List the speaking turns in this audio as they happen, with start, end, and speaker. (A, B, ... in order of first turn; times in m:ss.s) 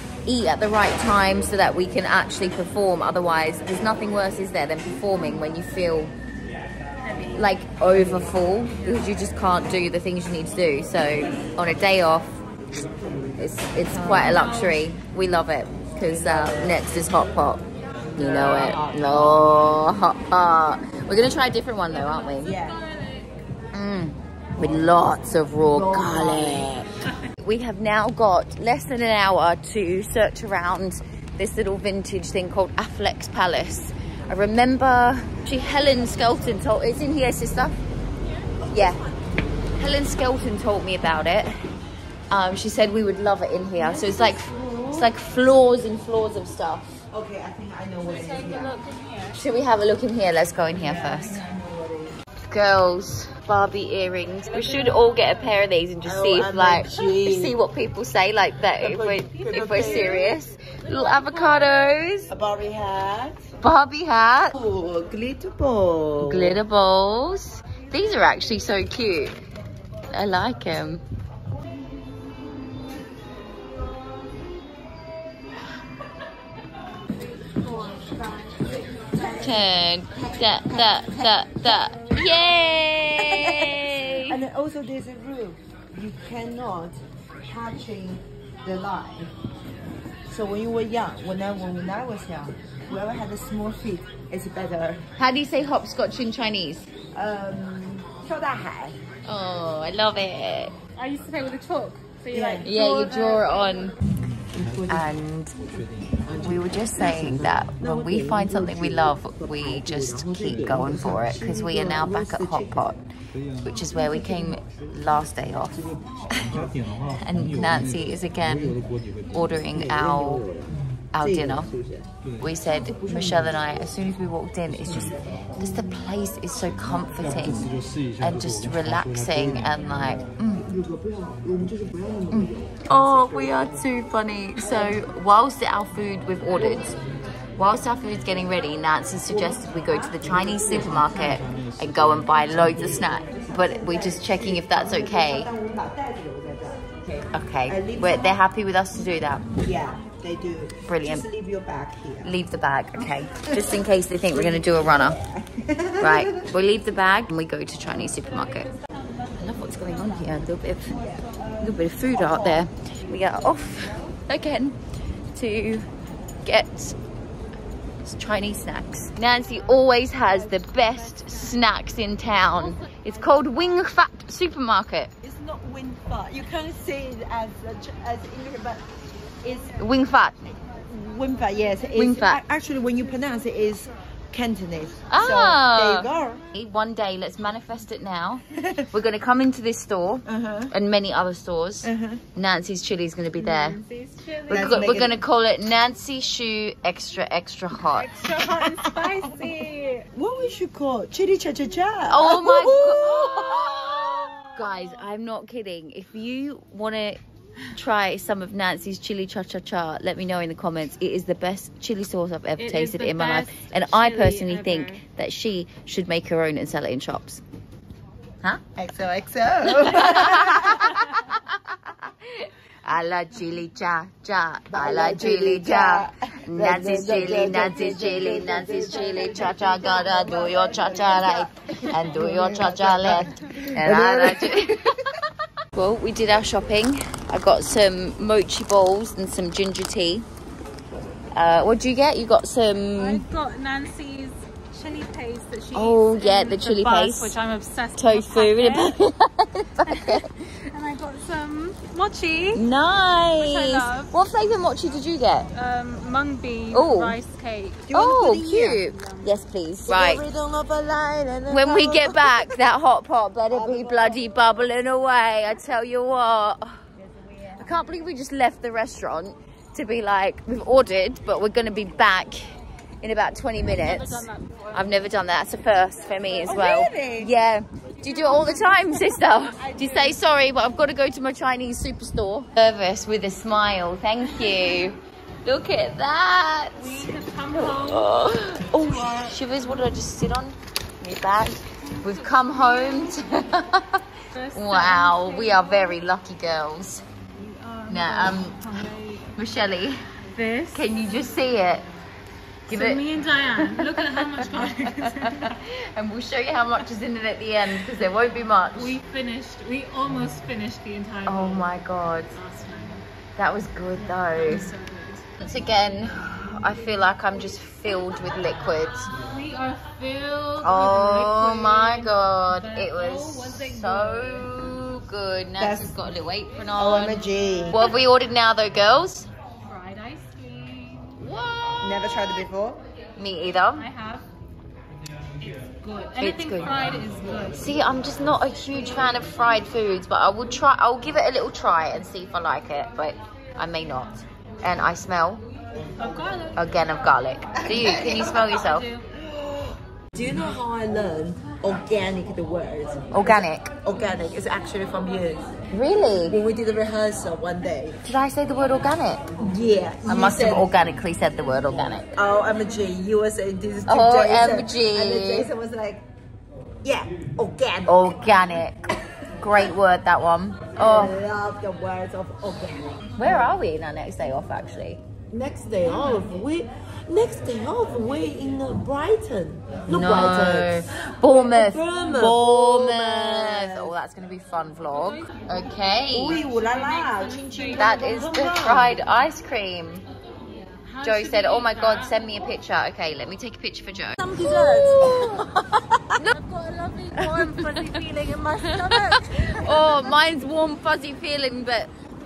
0:00.3-0:06.1 A
0:07.0-0:07.5 B
0:07.4-0:12.4 A
0:13.4-0:17.6 A
0:13.9-0:14.5 C
0:14.2-0:14.8 B
0:16.0-0:16.8 C
0:18.2-0:19.4 C
0:18.2-0:22.5 A
0:21.9-0:23.3 B
0:22.4-0:22.8 C
0:23.7-0:37.8 A
0:25.6-0:26.8 C
0:38.6-0:39.2 C
0:38.7-0:39.0 A
0:39.8-0:41.5 A
0:42.3-0:47.0 A
0:43.8-0:45.1 C
0:47.1-0:48.8 C
0:48.0-0:49.4 B
0:49.4-0:51.4 A
0:50.8-0:52.2 C
0:52.4-1:02.3 A
0:54.5-0:55.5 B
0:56.0-0:57.6 C
0:58.8-1:00.4 C
0:59.4-1:00.3 B
1:00.9-1:01.8 B
1:02.3-1:03.4 C
1:03.6-1:04.6 A
1:04.5-1:06.6 C
1:06.2-1:09.4 A
1:10.1-1:11.0 A
1:17.4-1:18.5 B
1:19.4-1:24.4 A
1:20.2-1:22.0 C
1:23.2-1:29.3 C
1:30.3-1:35.1 C
1:35.2-1:36.9 A
1:37.1-1:39.0 C
1:39.2-1:40.7 A
1:41.0-1:44.0 B
1:42.3-1:42.7 C
1:42.6-1:44.0 A
1:44.5-1:45.1 C
1:44.9-1:45.6 A
1:46.2-1:52.9 C
1:46.4-2:00.4 A
1:59.7-2:02.1 C
2:01.1-2:01.7 A
2:02.4-2:10.6 A
2:03.1-2:03.5 C
2:10.6-2:13.8 C
2:12.3-2:17.0 A
2:14.6-2:15.0 C
2:17.6-2:25.5 A
2:19.3-2:21.5 C
2:23.0-2:28.4 C
2:27.3-2:29.5 A
2:29.6-2:32.3 C
2:30.9-2:31.3 A
2:32.2-2:35.2 A
2:33.2-2:36.5 C
2:36.0-2:38.7 A
2:38.6-2:39.7 B
2:39.4-2:41.0 A
2:41.0-2:41.4 B
2:41.0-2:44.2 C
2:41.6-2:44.8 A
2:45.3-2:45.9 A
2:46.4-2:47.0 A
2:48.0-2:55.1 A
2:55.2-2:58.8 C
2:59.4-2:59.8 C
2:59.8-3:00.4 A
3:00.9-3:06.4 C
3:02.0-3:02.4 A
3:05.1-3:13.8 A
3:08.6-3:08.9 C
3:10.3-3:10.7 C
3:11.8-3:12.2 C
3:13.4-3:15.0 B
3:14.5-3:15.2 C
3:14.5-3:18.2 A
3:17.9-3:20.1 B
3:18.4-3:19.3 C
3:20.1-3:24.0 C
3:22.1-3:27.2 A
3:24.4-3:24.9 B
3:27.7-3:37.4 A
3:32.6-3:35.0 B
3:38.8-3:41.0 C
3:39.7-3:55.1 A
3:44.7-3:55.0 C
3:55.7-4:00.3 A
4:01.3-4:03.2 A
4:03.0-4:09.0 B
4:05.7-4:07.4 A
4:08.0-4:10.3 A
4:09.8-4:12.6 B
4:12.6-4:15.5 A
4:13.4-4:14.1 B
4:15.5-4:17.9 B
4:16.7-4:17.2 A
4:17.9-4:18.9 C
4:17.9-4:20.2 A
4:19.8-4:22.6 C
4:21.5-4:26.8 A
4:23.5-4:24.2 C
4:27.6-4:57.0 A
4:33.6-4:35.1 B
4:36.5-4:37.3 C
4:38.0-4:40.2 B
4:44.5-4:44.8 B
4:46.8-4:49.9 B
4:51.9-4:53.2 B
4:54.3-4:56.0 B
4:57.4-4:59.4 B
4:57.9-4:58.7 A
4:59.4-5:00.1 A
5:00.2-5:01.1 B
5:00.7-5:01.9 A
5:02.7-5:03.0 A
5:02.7-5:05.6 B
5:03.6-5:09.0 A
5:08.8-5:11.7 B
5:11.3-5:12.4 A
5:12.3-5:13.1 B
5:13.4-5:14.7 A
5:14.0-5:15.4 B
5:15.4-5:19.1 A
5:19.1-5:24.5 B
5:20.6-5:29.3 A
5:25.6-5:26.0 C
5:26.8-5:27.9 C
5:29.6-5:31.1 B
5:31.2-5:32.1 A
5:31.8-5:32.8 C
5:33.2-5:33.9 A
5:33.8-5:34.3 B
5:35.5-5:37.6 B
5:36.2-5:36.8 A
5:37.5-5:45.4 A
5:46.0-5:46.6 B
5:46.6-5:48.9 A
5:47.6-5:48.5 C
5:47.9-5:49.1 B
5:49.1-5:55.5 C
5:53.1-5:53.7 A
5:55.7-5:56.4 A
5:56.2-5:58.0 C
5:58.0-5:59.2 A
5:59.4-6:00.7 C
6:00.1-6:02.1 A
6:02.2-6:06.1 C
6:03.9-6:05.5 A
6:06.8-6:08.3 C
6:07.9-6:08.8 A
6:09.4-6:11.2 A
6:10.8-6:13.4 C
6:13.2-6:15.0 A
6:15.3-6:23.9 C
6:19.9-6:26.4 A
6:24.9-6:25.7 B
6:26.1-6:29.0 C
6:26.3-6:28.5 B
6:27.8-6:30.0 A
6:30.5-6:32.2 B
6:31.0-6:35.4 A
6:34.2-6:36.2 C
6:36.3-6:40.1 B
6:37.2-6:39.2 C
6:37.4-6:37.8 A
6:39.0-6:41.9 A